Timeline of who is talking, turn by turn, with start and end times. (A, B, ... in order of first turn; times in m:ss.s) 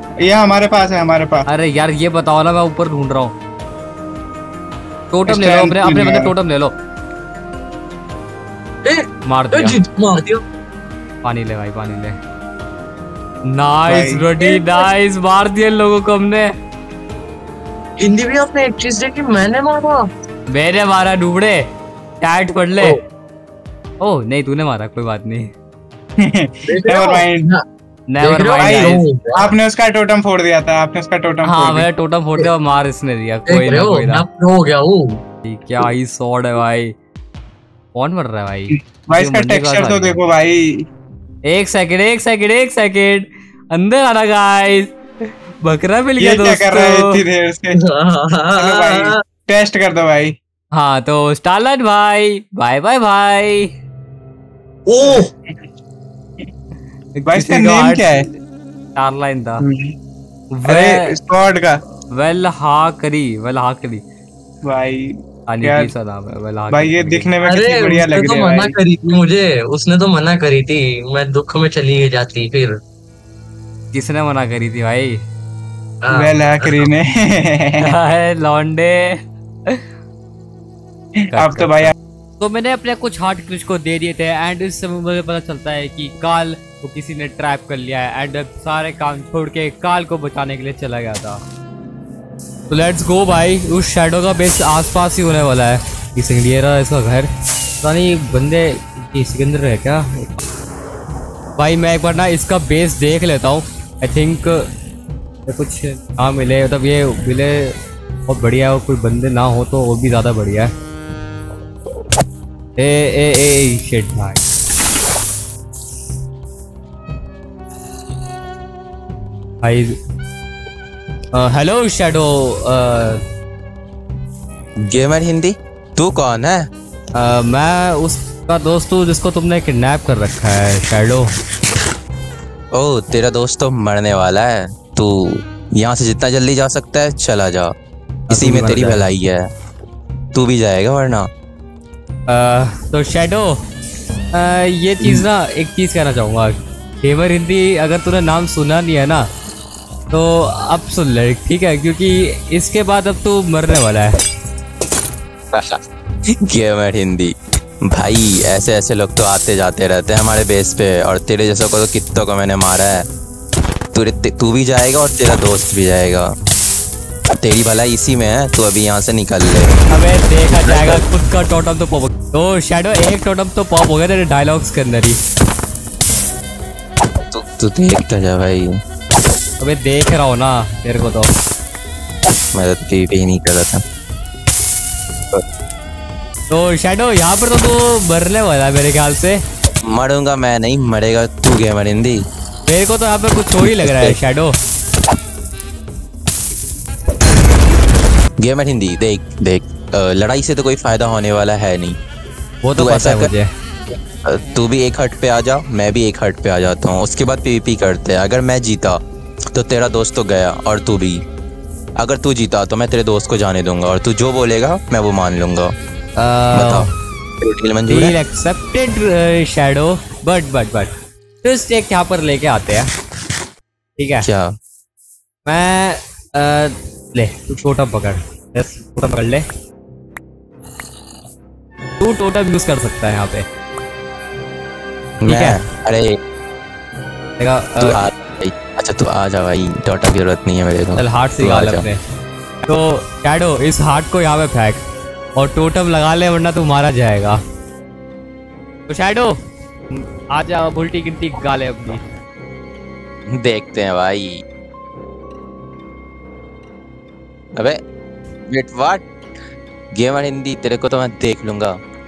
0:00.2-0:01.4 A
0:01.5-0:03.3 B
0:05.1-0:06.7 B
0:05.3-0:06.3 A
0:08.8-0:10.4 C
0:09.2-0:09.8 B
0:11.2-0:12.2 B
0:13.5-0:16.5 B
0:13.9-0:14.2 A
0:14.4-0:14.8 C
0:18.0-0:20.0 C
0:20.5-0:21.6 B
0:22.2-0:23.0 B
0:24.0-0:25.5 B
0:26.2-0:27.5 A
0:26.7-0:27.6 C
0:28.1-0:29.0 B
0:28.2-0:29.5 C
0:28.6-0:31.9 A
0:31.4-0:34.2 B
0:33.5-0:35.2 C
0:35.4-0:36.9 B
0:37.9-0:40.2 B
0:39.0-0:40.8 A
0:41.5-0:44.9 B
0:45.6-0:47.1 B
0:46.2-0:47.8 A
0:47.9-0:49.1 C
0:48.5-0:50.3 A
0:50.7-0:53.7 B
0:54.9-0:55.3 C
0:57.2-0:58.4 B
0:57.2-0:58.3 A
0:59.0-0:59.6 B
0:59.6-0:59.9 A
1:00.5-1:01.1 B
1:00.6-1:01.8 A
1:02.1-1:04.0 B
1:04.6-1:05.9 A
1:05.5-1:07.3 B
1:06.7-1:08.7 A
1:07.4-1:12.8 C
1:13.9-1:15.2 B
1:16.0-1:16.8 C
1:16.1-1:17.9 A
1:17.8-1:19.8 B
1:21.3-1:31.4 B
1:21.3-1:21.9 A
1:32.7-1:37.3 B
1:37.8-1:40.3 B
1:41.6-1:44.7 B
1:45.5-1:47.7 B
1:48.3-1:50.7 B
1:52.8-1:54.4 B
1:59.6-2:00.0 B
2:01.3-2:03.2 B
2:04.8-2:06.7 D
2:07.1-2:11.3 B
2:12.7-2:17.8 D
2:18.3-2:19.5 D
2:18.3-2:19.0 B
2:20.3-2:21.3 D
2:22.3-2:23.6 B
2:24.3-2:29.2 B
2:30.1-2:34.2 B
2:35.5-2:35.8 D
2:36.4-2:43.0 D
2:43.9-2:46.3 D
2:47.4-2:49.8 D
2:49.9-2:55.2 B
2:50.5-2:51.0 D
2:57.3-2:58.7 D
2:59.6-3:01.3 B
3:02.5-3:03.8 D
3:06.5-3:09.4 B
3:09.8-3:12.2 D
3:12.7-3:14.5 B
3:13.6-3:14.2 D
3:18.4-3:22.0 D
3:22.6-3:23.5 B
3:22.8-3:23.3 D
3:24.2-3:29.0 D
3:29.5-3:31.2 D
3:32.0-3:35.7 D
3:36.2-3:36.9 B
3:36.5-3:36.9 D
3:37.4-3:38.2 D
3:37.9-3:42.9 B
3:44.0-3:44.2 B
3:44.2-3:44.5 D
3:45.4-3:49.4 B
3:52.0-3:53.4 B
3:55.2-3:56.2 D
3:55.2-3:55.6 B
3:57.4-3:58.0 B
3:57.8-4:01.9 D
4:01.0-4:02.0 B
4:02.6-4:04.8 B
4:05.4-4:07.4 B
4:08.9-4:09.4 B
4:09.9-4:12.0 B
4:13.3-4:14.4 D
4:17.6-4:17.8 D
4:18.5-4:19.0 D
4:19.9-4:21.8 D